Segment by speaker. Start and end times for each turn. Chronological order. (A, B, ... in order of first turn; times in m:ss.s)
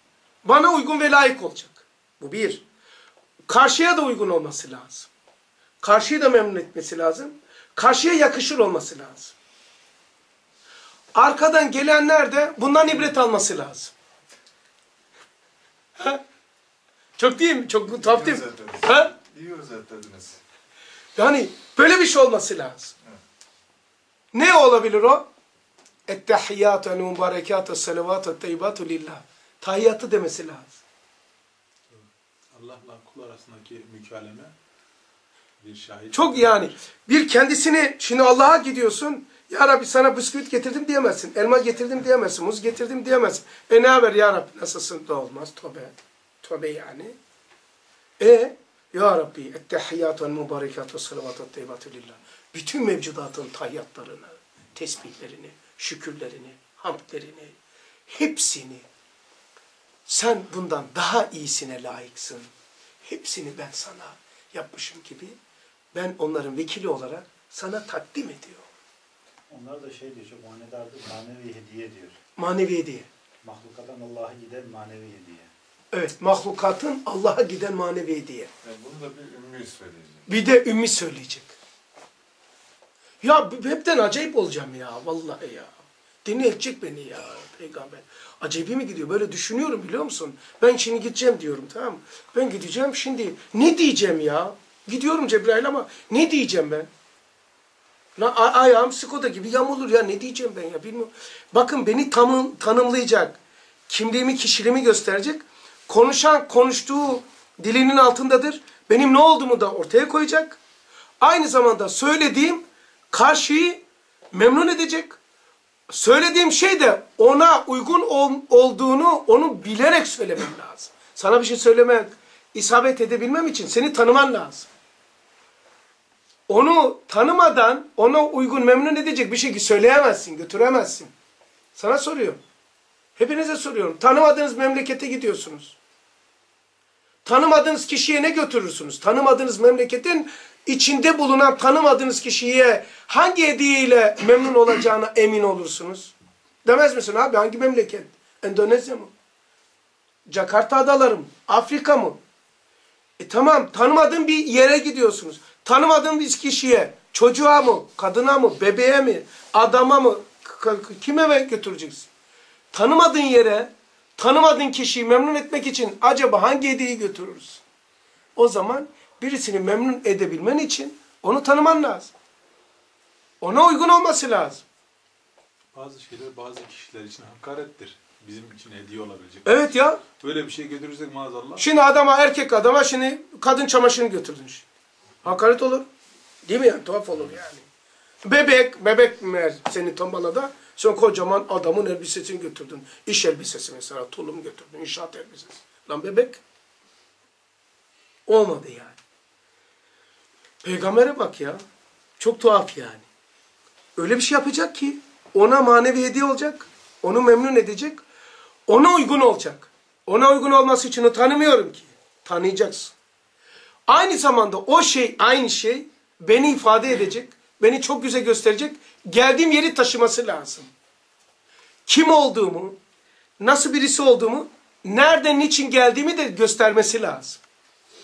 0:00.4-0:02.6 A
0:03.5-0:05.1 A
0:05.8-0:09.3 A
0:11.1-0:13.9 A
0:17.2-0:19.1 A
0:17.9-0:20.4 B
0:21.2-0:22.9 A
0:24.3-0:25.3 A
0:26.1-0:30.8 A
0:32.5-0:34.5 C
0:35.6-0:36.7 C
0:36.1-0:47.2 A
0:48.2-0:57.6 A
0:58.1-0:58.8 A
1:00.1-1:02.5 A
1:03.0-1:05.4 A
1:05.9-1:08.6 A
1:09.5-1:12.2 D
1:12.4-1:13.1 A
1:13.4-1:15.5 D
1:15.9-1:18.5 A
1:18.6-1:20.3 B
1:20.3-1:21.6 A
1:23.2-1:25.7 A
1:26.2-1:36.9 A
1:38.2-1:50.6 A
1:51.2-1:55.2 A
1:55.9-2:04.7 A
2:06.5-2:11.1 A
2:11.8-2:12.4 A
2:13.2-2:15.8 A
2:17.2-2:26.1 A
2:26.6-2:29.1 A
2:30.3-2:32.2 A
2:33.2-2:42.1 A
2:42.7-2:47.6 A
2:48.4-2:52.1 A
2:53.4-2:54.6 A
2:55.7-3:01.6 C
2:59.4-3:00.0 A
3:01.6-3:04.6 A
3:05.2-3:05.9 A
3:06.4-3:07.6 A
3:08.2-3:16.4 A
3:18.3-3:19.0 A
3:20.6-3:21.6 A
3:22.2-3:23.0 A
3:24.0-3:28.0 A
3:28.7-3:32.9 A
3:33.9-3:40.7 A
3:41.9-3:42.8 A
3:43.4-3:47.4 A